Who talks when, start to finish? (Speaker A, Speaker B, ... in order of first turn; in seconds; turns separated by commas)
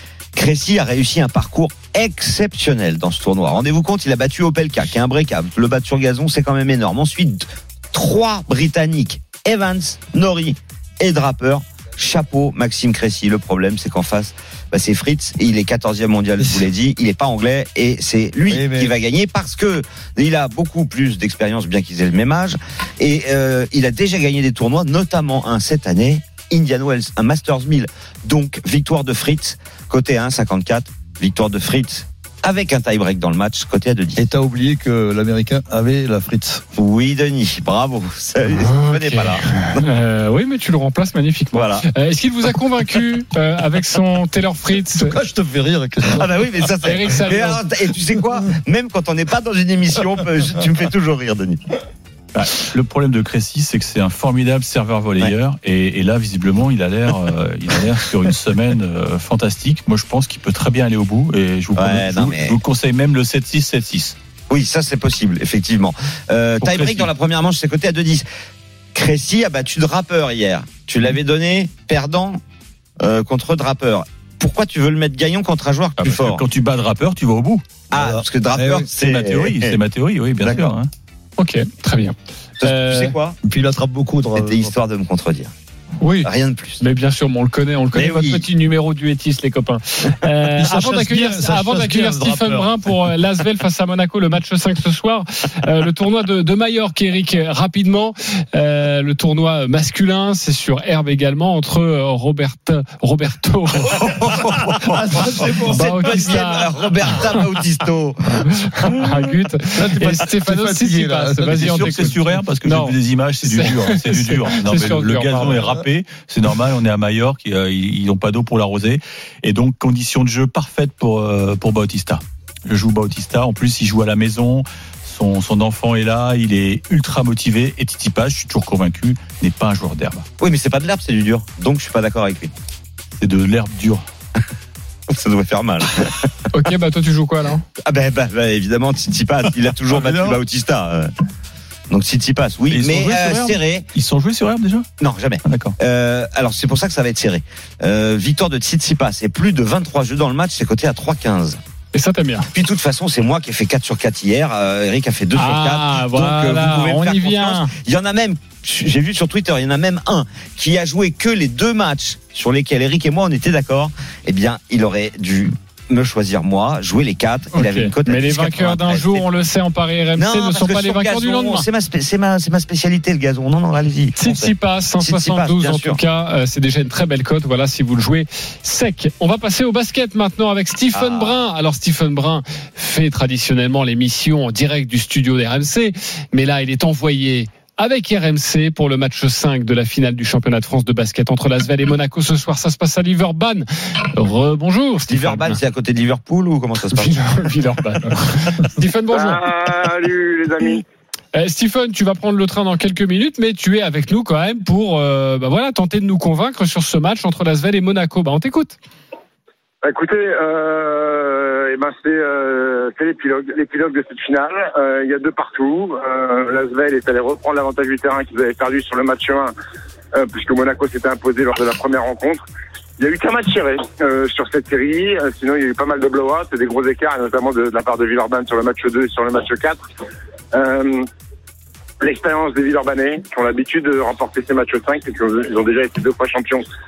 Speaker A: 0.3-34.2, Speaker B: 16.4-16.7, Speaker B: 18.5-18.9, Speaker B: 34.1-36.6, Speaker A: 36.8-39.8, Speaker C: 38.5-45.2, Speaker A: 41.5-41.9, Speaker B: 44.9-46.7, Speaker A: 46.1-51.6, Speaker C: 46.8-47.6, Speaker D: 52.3-64.2, Speaker A: 61.8-62.6, Speaker A: 64.5-68.2, Speaker D: 66.6-67.1, Speaker A: 68.9-72.4, Speaker A: 73.0-76.4, Speaker D: 76.0-77.6, Speaker A: 77.9-79.8, Speaker B: 77.9-78.9, Speaker D: 79.0-80.9, Speaker A: 80.4-80.7, Speaker C: 81.4-83.1, Speaker A: 82.6-83.4, Speaker B: 83.4-84.7, Speaker A: 84.3-85.5, Speaker C: 86.0-86.3, Speaker A: 86.2-86.8, Speaker C: 86.8-104.0, Speaker A: 87.9-88.4, Speaker B: 90.5-92.9, Speaker A: 104.0-104.8, Speaker B: 104.8-106.5, Speaker A: 105.4-109.1, Speaker C: 105.7-106.7, Speaker C: 108.7-115.6, Speaker B: 109.7-112.2, Speaker D: 111.5-130.2, Speaker B: 115.5-115.8, Speaker A: 130.4-132.5, Speaker D: 133.2-134.0, Speaker A: 135.1-136.3, Speaker C: 136.5-137.6, Speaker A: 137.8-141.1, Speaker B: 139.9-140.4, Speaker A: 141.9-143.8, Speaker D: 142.7-144.9, Speaker A: 145.0-151.6, Speaker D: 145.4-145.8, Speaker C: 151.9-152.5, Speaker A: 152.5-169.3, Speaker C: 155.3-157.7, Speaker C: 167.5-171.7, Speaker A: 170.2-176.0, Speaker C: 174.2-195.6, Speaker A: 180.9-181.4, Speaker A: 195.1-197.1, Speaker C: 196.9-199.4, Speaker E: 199.1-200.8, Speaker C: 201.3-208.8, Speaker E: 209.8-219.5, Speaker E: 220.1-222.4, Speaker E: 223.0-229.8, Speaker E: 230.5-231.1, Speaker E: 232.0-236.6